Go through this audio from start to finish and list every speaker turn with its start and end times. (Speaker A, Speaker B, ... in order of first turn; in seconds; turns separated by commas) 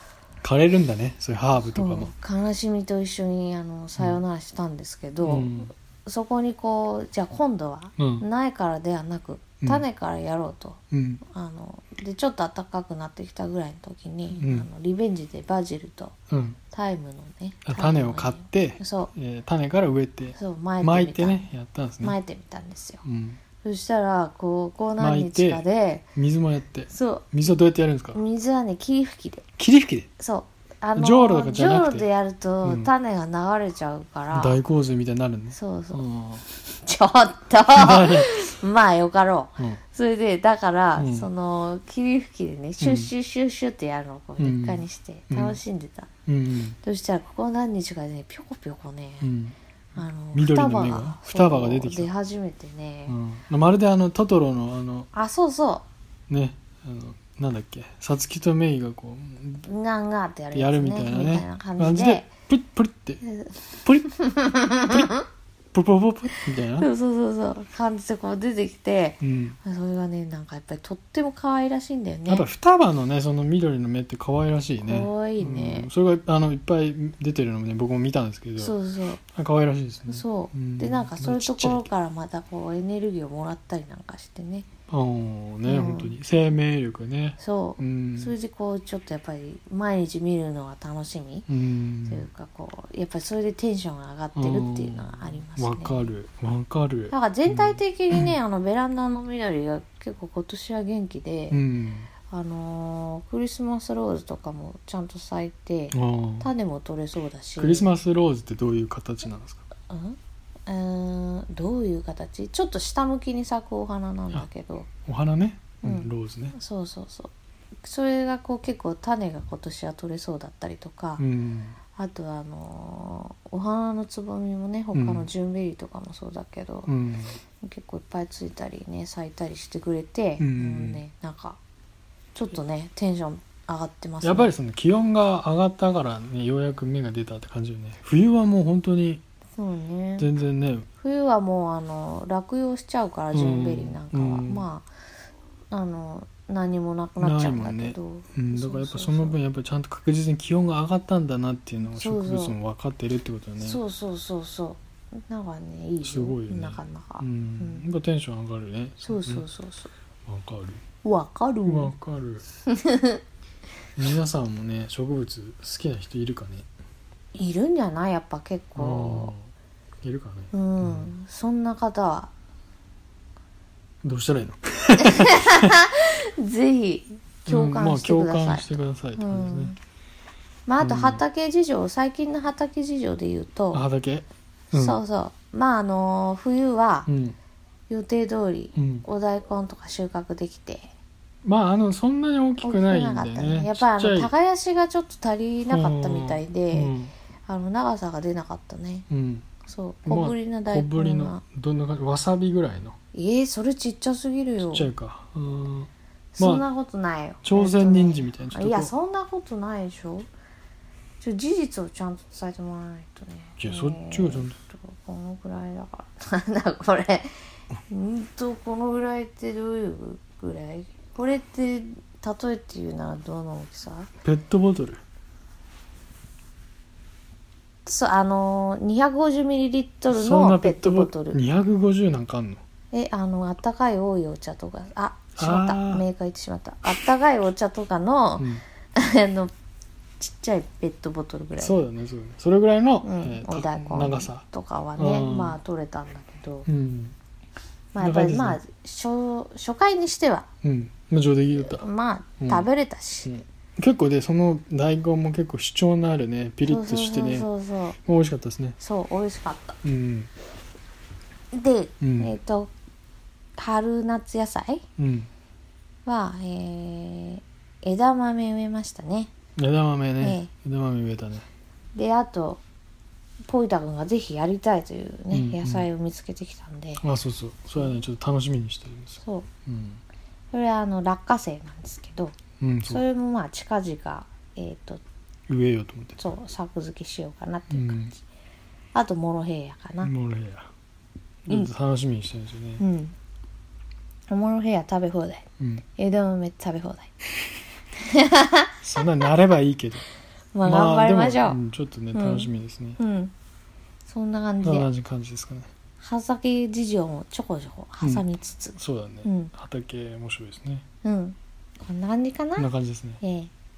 Speaker A: 0.4-2.1, Speaker B: 1.6-16.1, Speaker A: 5.2-5.7, Speaker A: 8.0-8.2, Speaker A: 10.9-11.2, Speaker A: 14.3-14.7, Speaker A: 16.3-16.6, Speaker B: 16.7-19.1, Speaker A: 17.6-22.2, Speaker B: 20.4-21.5, Speaker B: 22.0-23.0, Speaker A: 23.0-23.4, Speaker B: 23.6-26.1, Speaker A: 25.0-25.6, Speaker A: 26.2-28.2, Speaker B: 26.9-27.3, Speaker B: 28.1-29.4, Speaker A: 29.6-30.1, Speaker B: 30.2-34.5, Speaker A: 31.0-32.1, Speaker A: 32.6-32.9, Speaker A: 34.3-36.5, Speaker B: 35.5-46.1, Speaker A: 37.7-38.3, Speaker A: 41.0-41.3, Speaker A: 42.8-43.1, Speaker A: 44.4-45.6, Speaker A: 46.3-46.8, Speaker B: 46.8-49.3, Speaker A: 49.2-49.5, Speaker B: 50.0-53.2, Speaker A: 50.3-52.1, Speaker A: 53.1-55.1, Speaker B: 55.1-55.9, Speaker A: 56.3-59.7, Speaker B: 59.6-62.3, Speaker A: 60.5-63.2, Speaker B: 63.2-65.2, Speaker A: 63.8-64.1, Speaker A: 65.7-66.9, Speaker B: 66.8-72.5, Speaker A: 69.2-69.6, Speaker A: 72.3-78.8, Speaker B: 74.8-75.9, Speaker B: 78.6-79.2, Speaker A: 79.3-81.9, Speaker B: 80.1-84.7, Speaker A: 84.9-88.4, Speaker B: 85.7-86.2, Speaker B: 87.4-91.5, Speaker A: 91.5-92.3, Speaker B: 92.1-96.0, Speaker A: 94.3-98.3, Speaker B: 97.1-101.6, Speaker A: 101.5-102.1, Speaker B: 102.3-107.9, Speaker A: 105.9-106.5, Speaker A: 107.6-109.7, Speaker B: 109.9-114.9, Speaker A: 115.1-116.6, Speaker B: 115.8-117.3, Speaker B: 117.8-121.2, Speaker A: 121.2-121.8, Speaker B: 122.0-126.9, Speaker A: 124.9-125.3, Speaker A: 126.9-127.4, Speaker B: 127.6-131.6, Speaker A: 130.4-131.0, Speaker B: 132.3-134.5, Speaker A: 134.2-139.2, Speaker B: 139.6-140.3, Speaker A: 140.2-140.9, Speaker B: 141.0-144.9, Speaker A: 143.3-144.7, Speaker B: 145.7-149.4, Speaker A: 147.2-153.8, Speaker B: 151.9-152.6, Speaker B: 153.6-157.8, Speaker A: 156.0-159.4, Speaker B: 159.0-159.9, Speaker A: 160.3-160.8, Speaker B: 161.0-161.9, Speaker A: 161.6-162.4, Speaker B: 162.7-163.2, Speaker A: 164.0-166.7, Speaker B: 167.3-169.3, Speaker A: 168.8-169.5, Speaker A: 170.0-171.1, Speaker B: 170.5-172.3, Speaker A: 174.0-175.7, Speaker B: 175.0-179.8, Speaker A: 177.5-179.7, Speaker B: 180.7-183.8, Speaker A: 180.8-181.2, Speaker A: 183.7-185.0, Speaker B: 184.7-187.1, Speaker A: 187.1-187.4, Speaker B: 187.9-190.9, Speaker A: 188.8-189.1, Speaker A: 191.4-194.3, Speaker B: 192.6-196.9, Speaker A: 195.7-197.1, Speaker B: 197.5-199.1, Speaker A: 199.1-199.5, Speaker B: 199.6-201.4, Speaker A: 200.1-203.0, Speaker B: 203.1-204.9, Speaker A: 204.7-206.7, Speaker B: 206.4-210.3, Speaker A: 207.4-208.9, Speaker B: 211.2-224.1, Speaker A: 213.6-214.6, Speaker A: 224.2-225.0, Speaker B: 227.8-231.4, Speaker A: 230.1-232.6, Speaker B: 232.9-239.5, Speaker A: 235.4-236.1, Speaker A: 238.4-238.6, Speaker B: 240.2-241.8, Speaker A: 241.6-244.4, Speaker B: 243.0-246.7, Speaker A: 245.0-245.6, Speaker A: 246.7-247.2, Speaker B: 247.9-250.5, Speaker A: 248.0-248.6, Speaker A: 250.6-251.8, Speaker B: 251.6-253.3, Speaker A: 252.4-252.7, Speaker A: 253.2-257.5, Speaker B: 256.6-258.0, Speaker A: 258.1-258.8, Speaker B: 258.8-259.8, Speaker A: 259.8-260.3, Speaker B: 261.5-262.7, Speaker A: 262.0-262.4, Speaker B: 263.6-264.8, Speaker A: 265.0-265.3, Speaker B: 266.1-269.3, Speaker A: 269.6-271.5, Speaker B: 270.2-270.5, Speaker B: 271.9-272.6, Speaker B: 273.5-277.0, Speaker A: 275.3-275.9, Speaker A: 277.0-280.0, Speaker B: 279.2-279.5, Speaker B: 280.5-282.4, Speaker A: 282.6-283.0, Speaker B: 282.9-285.0, Speaker A: 285.5-286.2, Speaker B: 286.2-288.1, Speaker A: 287.7-288.1, Speaker B: 288.9-290.1, Speaker A: 290.0-290.7, Speaker A: 291.4-292.8, Speaker B: 292.8-293.1, Speaker B: 294.3-295.4, Speaker A: 295.6-295.8, Speaker B: 296.0-297.1, Speaker B: 298.0-298.7, Speaker A: 298.8-300.0, Speaker B: 300.5-301.6, Speaker A: 300.6-303.0, Speaker B: 302.1-303.3, Speaker B: 304.1-304.9, Speaker A: 304.6-305.7, Speaker B: 306.0-309.5, Speaker A: 308.0-310.9, Speaker B: 311.0-312.7, Speaker A: 312.6-313.2, Speaker B: 313.2-313.5